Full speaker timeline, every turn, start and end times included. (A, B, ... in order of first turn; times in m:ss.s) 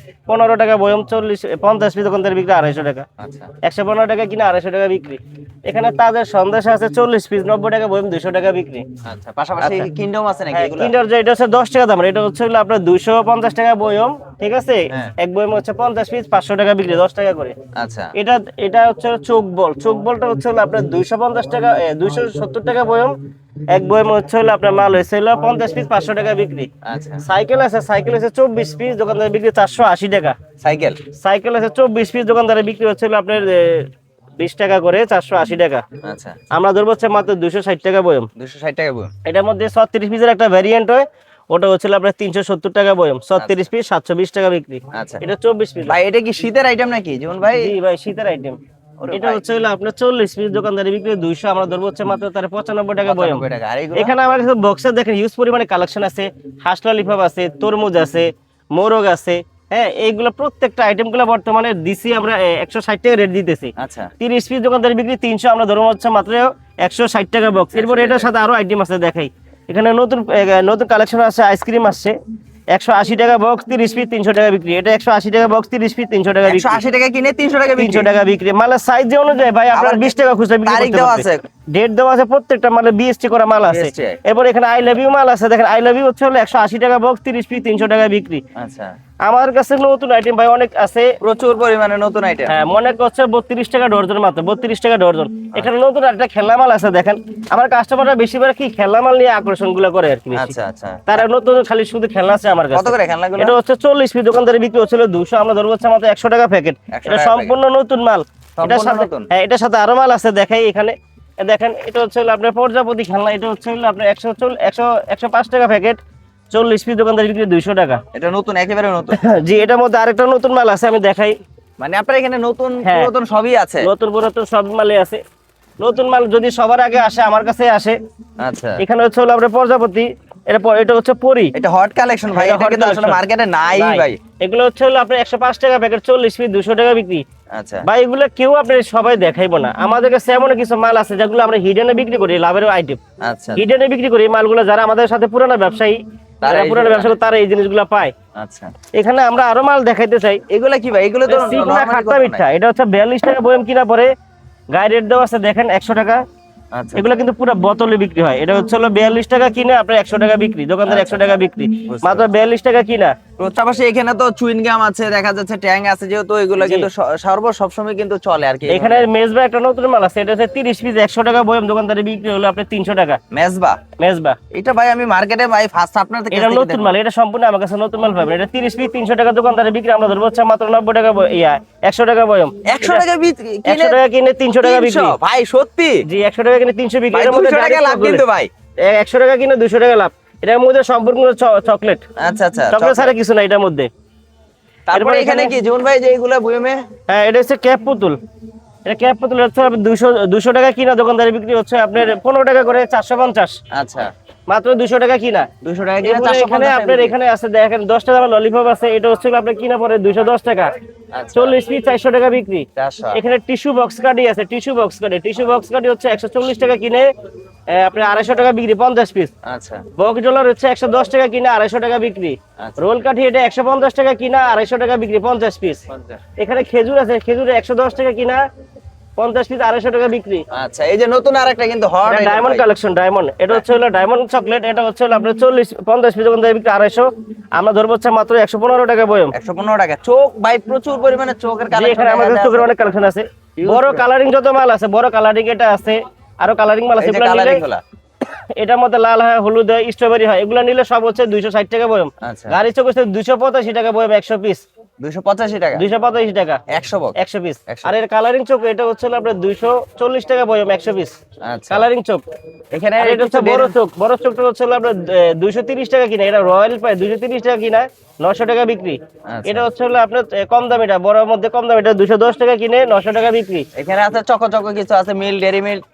0:00.3-0:03.1 A
0:03.2-0:03.5 B
0:03.6-0:08.8 A
0:09.0-0:10.9 B
0:09.6-0:09.9 A
0:10.5-0:17.6 A
0:17.8-0:18.1 B
0:18.2-0:23.1 A
0:23.7-0:26.7 A
0:26.8-0:27.2 B
0:27.2-0:30.4 A
0:30.6-0:31.0 B
0:31.2-0:35.8 A
0:36.0-0:36.4 B
0:36.5-0:38.3 A
0:38.4-0:39.1 B
0:39.2-0:46.0 A
0:43.4-0:43.6 B
0:44.9-0:45.2 B
0:45.9-0:47.7 B
0:47.6-0:48.6 A
0:49.0-0:49.4 B
0:49.1-0:53.4 A
0:53.0-0:54.1 B
0:54.0-1:12.2 A
1:03.8-1:04.1 B
1:07.8-1:08.3 B
1:12.7-1:16.8 A
1:16.4-1:18.1 B
1:17.8-1:28.4 A
1:19.7-1:20.1 B
1:20.7-1:21.4 B
1:23.7-1:24.2 B
1:28.6-1:28.9 B
1:29.3-1:31.1 A
1:31.2-1:32.6 B
1:32.5-1:40.5 A
1:40.3-1:41.2 B
1:41.1-1:56.0 A
1:42.7-1:43.6 B
1:46.9-1:47.6 B
1:48.6-1:49.3 B
1:56.5-1:58.0 A
1:58.1-1:59.2 B
1:59.2-2:01.4 A
2:01.8-2:03.9 B
2:02.8-2:03.1 A
2:03.8-2:05.2 A
2:05.8-2:08.0 A
2:08.4-2:08.8 B
2:08.8-2:11.5 A
2:11.6-2:14.2 B
2:12.3-2:13.2 A
2:13.8-2:17.2 A
2:17.5-2:17.9 B
2:17.8-2:23.0 A
2:23.2-2:23.6 B
2:23.6-2:28.1 A
2:26.4-2:27.2 B
2:28.4-2:28.7 B
2:29.0-2:30.4 A
2:30.5-2:32.4 B
2:31.3-2:34.1 A
2:34.7-2:36.2 A
2:36.7-2:37.0 B
2:37.0-2:43.2 A
2:40.9-2:41.3 B
2:41.9-2:42.3 B
2:43.4-2:49.1 B
2:46.6-2:46.9 A
2:48.7-2:53.2 A
2:53.3-2:53.8 B
2:54.0-2:54.4 A
2:54.5-2:56.9 B
2:56.3-3:03.0 A
3:02.7-3:04.0 B
3:03.7-3:05.1 A
3:04.6-3:06.0 B
3:06.1-3:08.2 A
3:07.1-3:08.5 B
3:08.8-3:12.0 A
3:12.2-3:13.1 B
3:12.7-3:13.9 A
3:14.9-3:16.8 B
3:14.9-3:15.5 A
3:17.1-3:18.2 A
3:18.9-3:23.6 A
3:23.7-3:24.1 B
3:24.5-3:25.5 A
3:25.6-3:27.1 B
3:26.0-3:30.7 A
3:31.1-3:31.6 B
3:31.4-3:37.1 A
3:32.8-3:33.2 B
3:37.7-3:39.3 A
3:39.4-3:39.8 B
3:40.0-3:45.8 A
3:45.9-3:46.2 B
3:46.4-3:48.4 A
3:49.2-3:50.4 A
3:50.5-3:52.7 B
3:52.1-3:59.3 A
3:59.3-4:02.7 B
4:01.7-4:07.6 A
4:03.6-4:04.1 B
4:07.0-4:07.8 B
4:08.2-4:14.6 A
4:12.2-4:12.6 B
4:15.0-4:15.8 B
4:15.8-4:16.6 A
4:16.7-4:17.2 B
4:17.2-4:21.2 A
4:21.4-4:21.9 B
4:21.7-4:22.2 A
4:22.7-4:23.8 B
4:23.0-4:33.7 A
4:29.3-4:29.7 B
4:33.8-4:35.8 B